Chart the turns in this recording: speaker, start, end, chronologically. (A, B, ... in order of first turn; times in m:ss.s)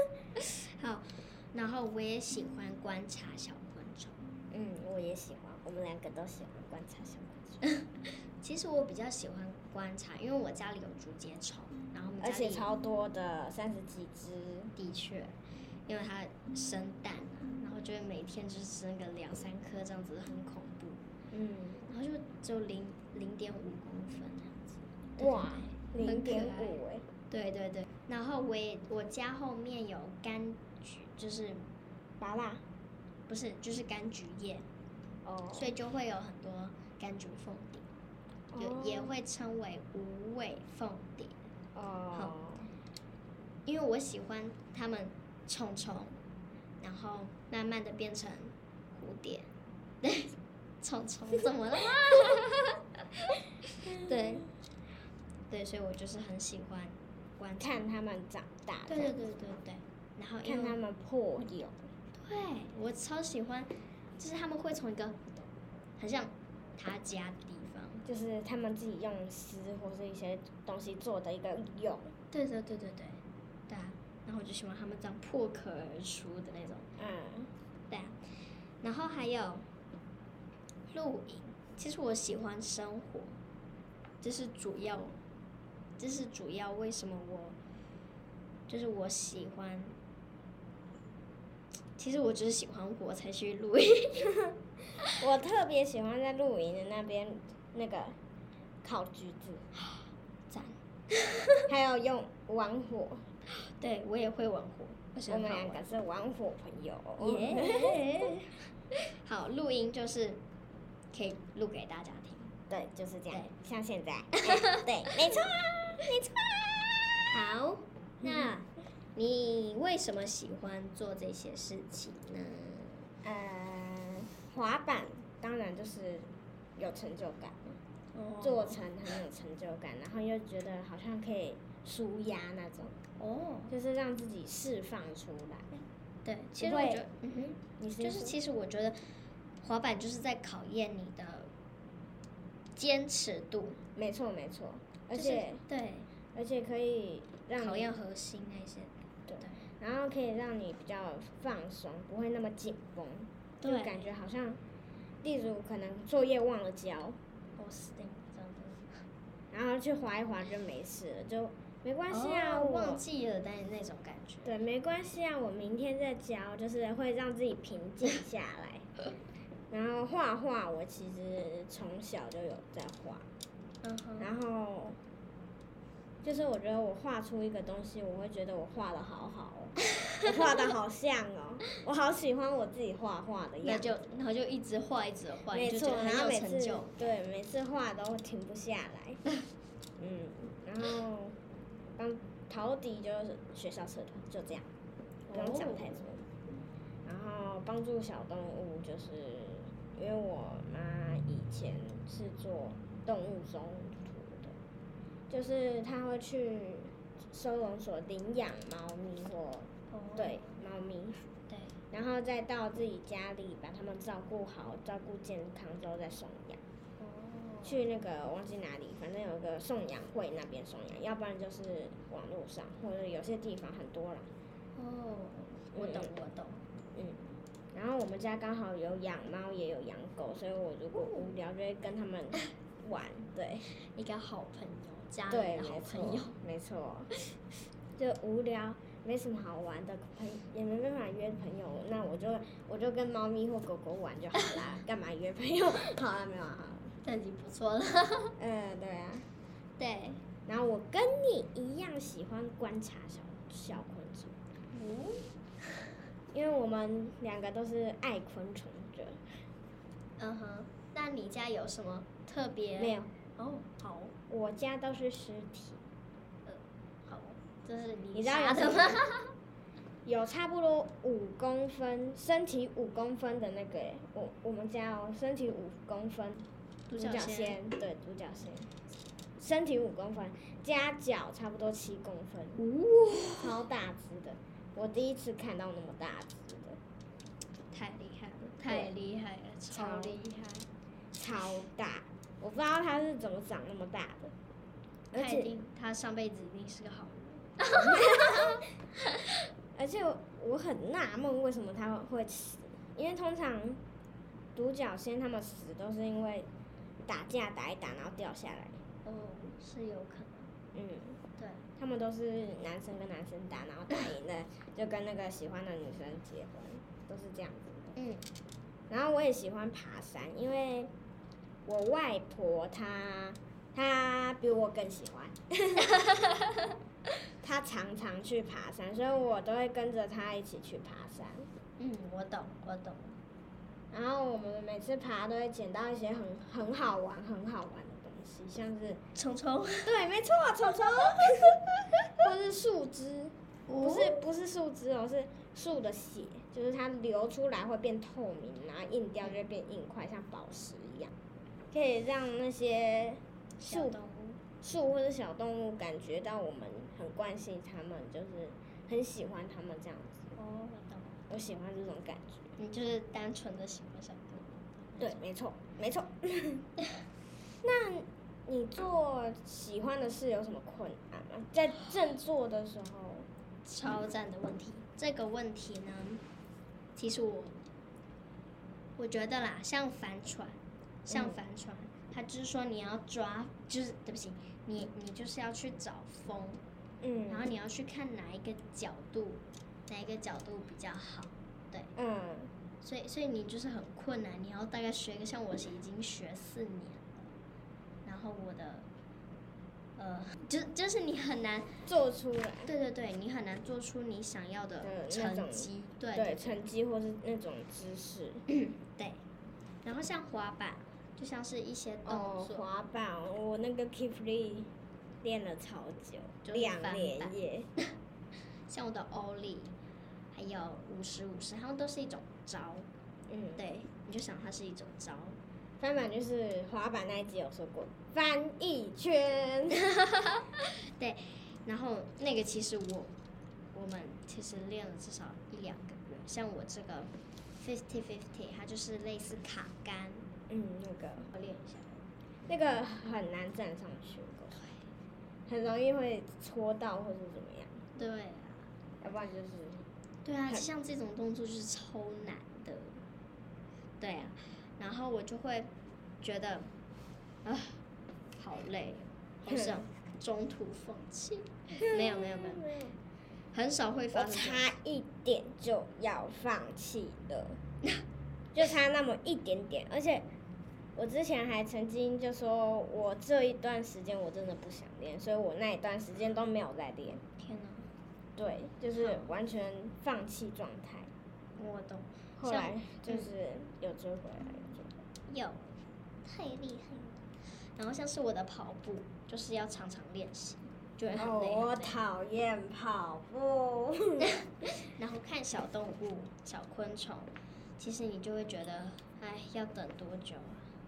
0:00.4-0:04.2 A
0:04.5-0:07.6 B
0:07.6-0:12.7 A
0:12.2-0:14.7 B
0:14.8-0:15.4 A
0:15.9-0:21.0 A
0:21.3-0:21.8 B
0:21.9-0:26.8 A
0:25.2-0:27.1 B
0:27.3-0:31.7 A
0:32.2-0:32.6 B
0:33.3-0:34.7 A
0:35.2-0:35.7 B
0:35.6-0:37.9 A
0:38.5-0:39.2 B
0:38.6-0:41.5 A
0:41.8-0:42.7 B
0:43.7-0:46.2 A
0:46.8-0:49.5 A
0:50.0-0:54.5 A
0:53.9-0:54.4 B
0:55.5-0:57.8 A
0:57.6-0:59.2 B
0:58.9-1:00.8 A
1:00.4-1:01.9 B
1:02.2-1:05.3 A
1:06.0-1:08.0 A
1:08.0-1:12.1 B
1:12.3-1:16.9 A
1:17.0-1:17.5 B
1:17.9-1:19.7 A
1:20.9-1:23.4 A
1:24.2-1:25.2 A
1:26.0-1:27.6 A
1:28.7-1:30.0 A
1:32.0-1:34.4 A
1:35.2-1:38.2 B
1:38.8-1:39.6 B
1:39.8-1:41.6 A
1:41.7-1:43.2 B
1:43.5-1:45.8 A
1:45.3-1:48.3 B
1:47.2-1:50.4 A
1:51.1-1:52.5 A
1:52.7-1:57.2 B
1:54.3-1:55.2 A
1:57.3-2:03.0 A
1:58.2-1:58.6 B
2:03.2-2:07.8 B
2:08.1-2:08.8 A
2:08.4-2:13.0 B
2:13.2-2:13.7 A
2:13.7-2:15.8 B
2:16.2-2:19.0 A
2:16.6-2:17.0 B
2:17.8-2:18.4 B
2:19.6-2:21.5 A
2:22.8-2:23.8 A
2:24.0-2:25.6 B
2:25.1-2:26.1 A
2:26.4-2:28.0 B
2:27.6-2:29.6 A
2:29.3-2:34.6 B
2:33.6-2:34.1 A
2:35.2-2:37.2 B
2:37.6-2:39.0 A
2:39.5-2:43.0 B
2:42.1-2:44.5 A
2:44.4-2:48.9 B
2:49.7-2:53.3 B
2:53.8-2:54.3 A
2:54.2-2:55.0 B
2:56.2-3:03.9 B
3:03.6-3:07.1 A
3:05.5-3:09.2 B
3:10.0-3:11.4 B
3:12.0-3:14.7 B
3:15.3-3:16.0 A
3:15.3-3:16.3 B
3:17.1-3:24.6 B
3:25.3-3:31.2 B
3:29.9-3:30.6 A
3:31.5-3:31.8 A
3:31.9-3:36.6 B
3:37.0-3:37.8 A
3:37.6-3:44.3 B
3:44.8-3:46.6 A
3:45.8-3:46.1 B
3:47.0-3:53.7 B
3:51.0-3:51.2 A
3:53.7-3:56.4 A
3:55.3-3:57.1 B
3:58.0-4:07.0 B
4:07.0-4:08.3 A
4:08.4-4:09.3 B
4:09.8-4:10.2 A
4:10.5-4:14.3 B
4:14.7-4:15.8 A
4:16.3-4:19.2 B
4:20.2-4:24.1 A
4:22.8-4:23.1 B
4:24.3-4:25.8 B
4:26.5-4:29.3 A
4:28.1-4:29.0 B
4:30.0-4:36.4 B
4:36.9-4:37.6 A
4:37.0-4:38.7 B
4:39.4-4:42.6 B
4:42.6-4:43.6 A
4:43.4-4:46.8 B
4:47.7-4:50.7 A
4:48.7-4:48.9 B
4:49.7-4:50.2 B
4:51.1-4:54.3 B
4:55.1-4:55.5 B
4:55.1-4:58.6 A
4:57.7-4:58.6 B
4:59.8-5:03.8 B
5:04.6-5:06.5 B
5:07.0-5:08.8 B
5:09.0-5:10.5 A
5:10.8-5:11.2 B
5:11.4-5:11.6 A
5:11.8-5:18.0 B
5:18.0-5:18.2 A
5:18.9-5:20.9 B
5:21.6-5:26.0 B
5:27.4-5:31.5 B
5:31.8-5:33.2 A
5:33.9-5:39.0 B
5:39.1-5:39.9 A
5:39.9-5:41.6 B
5:41.6-5:42.1 A
5:42.2-5:51.1 B
5:43.7-5:44.2 A
5:51.7-5:54.0 B
5:53.6-5:54.4 A
5:54.6-6:00.2 B
6:00.4-6:01.2 A
6:01.3-6:02.5 B
6:02.6-6:05.2 A
6:05.0-6:06.6 B
6:07.6-6:13.3 B
6:13.6-6:16.2 A
6:17.0-6:17.6 A
6:19.0-6:26.6 A
6:21.1-6:21.4 B
6:27.0-6:27.5 B
6:27.3-6:31.9 A
6:32.0-6:32.5 B
6:32.8-6:37.3 A
6:38.0-6:38.9 A
6:40.0-6:41.8 A
6:41.8-6:42.7 B
6:42.6-6:46.6 A
6:44.8-6:48.4 B
6:48.5-6:49.2 A
6:49.8-6:52.7 A
6:52.1-6:54.7 B
6:55.2-6:57.7 B
6:56.4-6:57.9 A
6:58.7-6:59.7 A
7:00.3-7:02.9 A
7:03.3-7:03.6 B
7:03.6-7:05.4 A
7:05.8-7:09.8 B
7:09.8-7:13.1 A
7:13.7-7:20.3 A
7:20.5-7:21.3 B
7:21.3-7:22.0 A
7:22.5-7:24.6 B
7:25.5-7:27.8 B
7:28.0-7:28.7 A
7:29.0-7:29.8 B
7:30.2-7:33.0 A
7:34.0-7:35.7 A
7:36.2-7:36.7 A
7:37.4-7:37.8 A
7:38.4-7:42.7 A
7:39.5-7:39.8 B
7:41.8-7:43.0 B
7:43.5-7:44.7 A
7:44.1-7:47.6 B
7:48.5-7:50.2 B
7:51.0-7:57.2 B
7:57.4-7:57.9 A
7:58.4-8:01.1 B
7:59.0-7:59.3 A
8:01.6-8:03.3 A
8:02.4-8:05.0 B
8:05.3-8:12.0 A
8:11.1-8:14.3 B
8:14.2-8:20.7 A